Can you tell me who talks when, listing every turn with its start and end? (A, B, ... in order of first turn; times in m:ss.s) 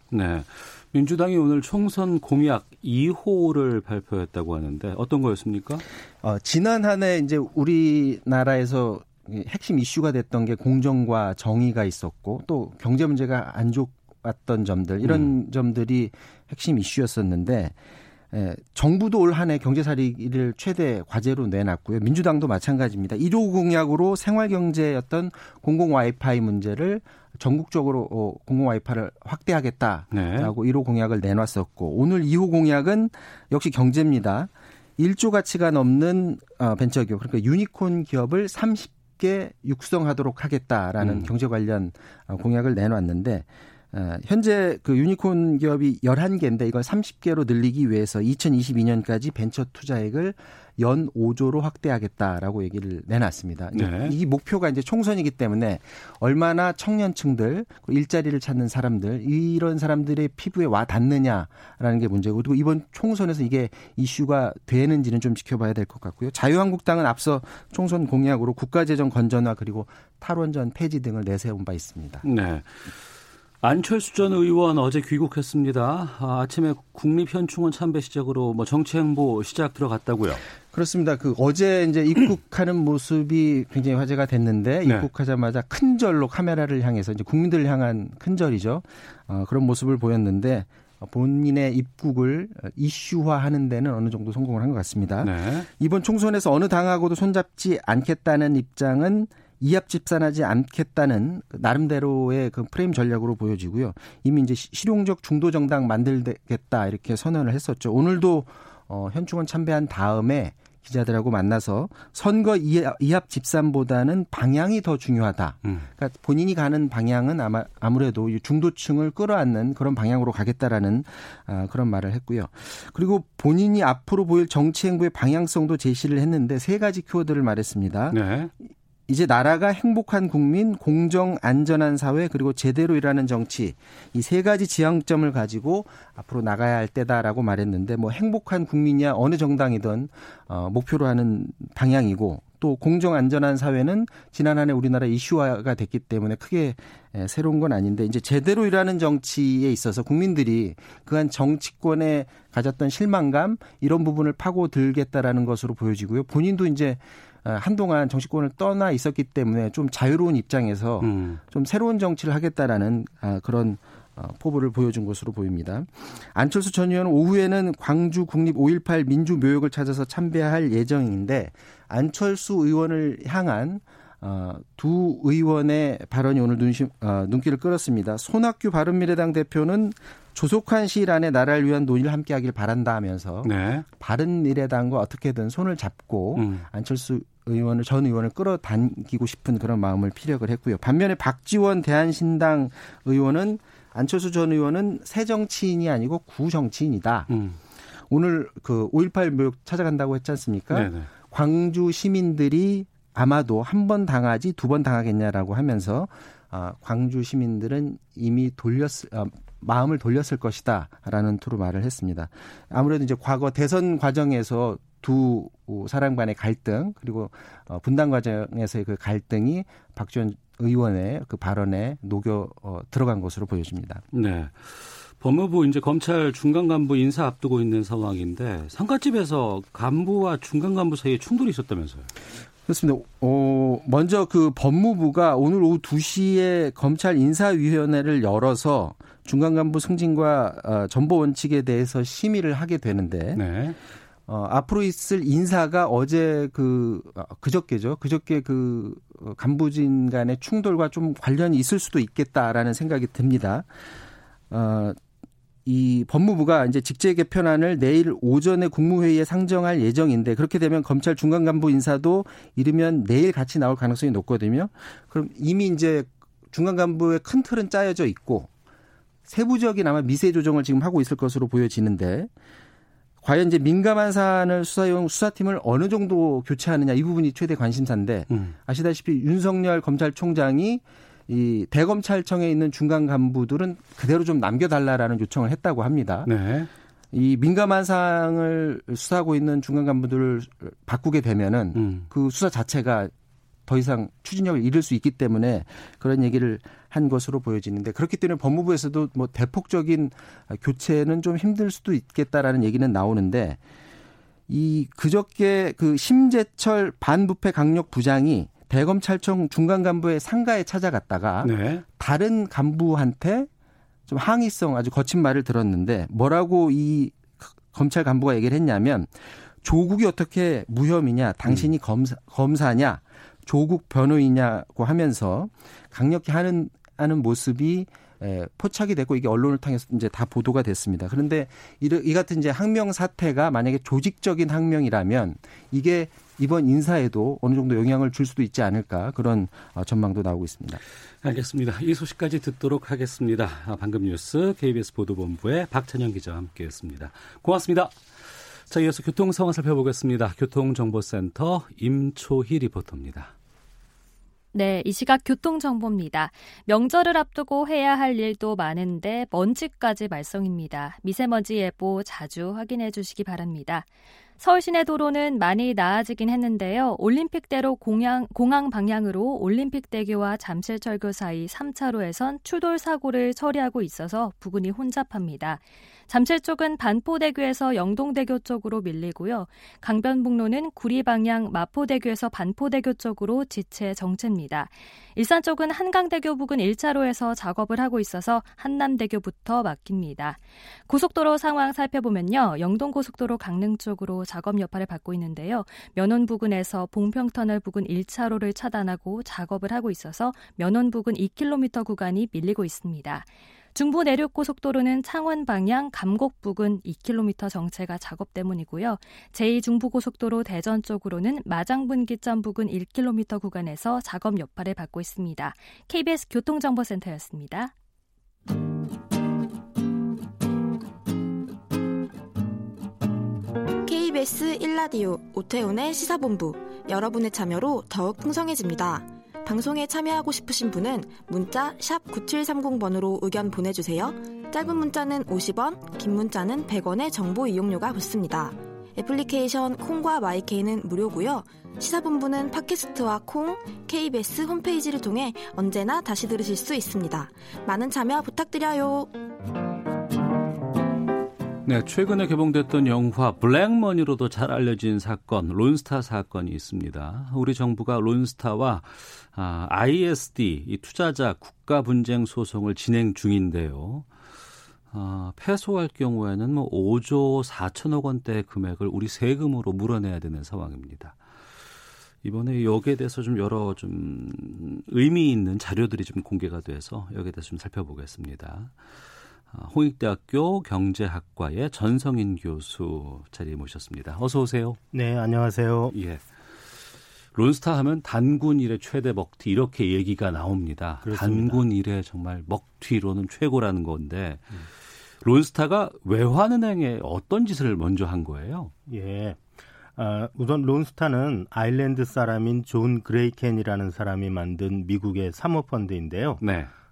0:00.1-0:05.8 A
0:06.2-0:17.7 B
0:15.0-0:15.3 A
0:18.3-1:12.2 B
0:30.1-0:30.5 A
0:41.0-0:41.3 A
0:53.7-0:54.2 A
1:12.2-1:12.9 A
1:13.6-1:20.4 A
1:20.7-2:08.2 B
1:35.2-1:35.7 A
2:08.1-2:08.5 A
2:09.1-3:17.3 B
2:41.0-2:41.4 A
3:03.4-3:03.8 A
3:06.4-3:06.6 A
3:17.3-3:17.6 A
3:18.1-3:44.0 B
3:20.7-3:21.1 A
3:44.1-3:52.1 A
3:52.6-4:03.4 B
4:03.4-4:03.8 A
4:04.2-4:13.7 B
4:14.5-4:15.0 B
4:15.6-4:28.5 B
4:29.2-4:32.3 B
4:33.2-4:46.3 B
4:38.3-4:38.5 A
4:46.2-4:46.7 A
4:47.1-4:53.1 B
4:51.7-4:52.1 A
4:53.7-5:03.6 B
5:04.5-5:13.5 B
5:11.4-5:11.8 A
5:14.1-5:40.8 B
5:41.2-5:48.0 A
5:48.6-5:53.3 A
5:54.5-6:57.7 C
7:03.8-7:29.1 D
7:31.6-7:44.1 A
7:44.9-7:51.2 A
7:52.2-7:58.8 A
7:59.5-8:04.8 A
8:04.9-8:05.9 E
8:05.9-8:06.2 A
8:07.3-8:14.5 A
8:11.0-8:11.6 E
8:15.2-8:18.7 A
8:18.9-8:19.4 E
8:20.0-8:26.4 E
8:26.4-8:26.7 A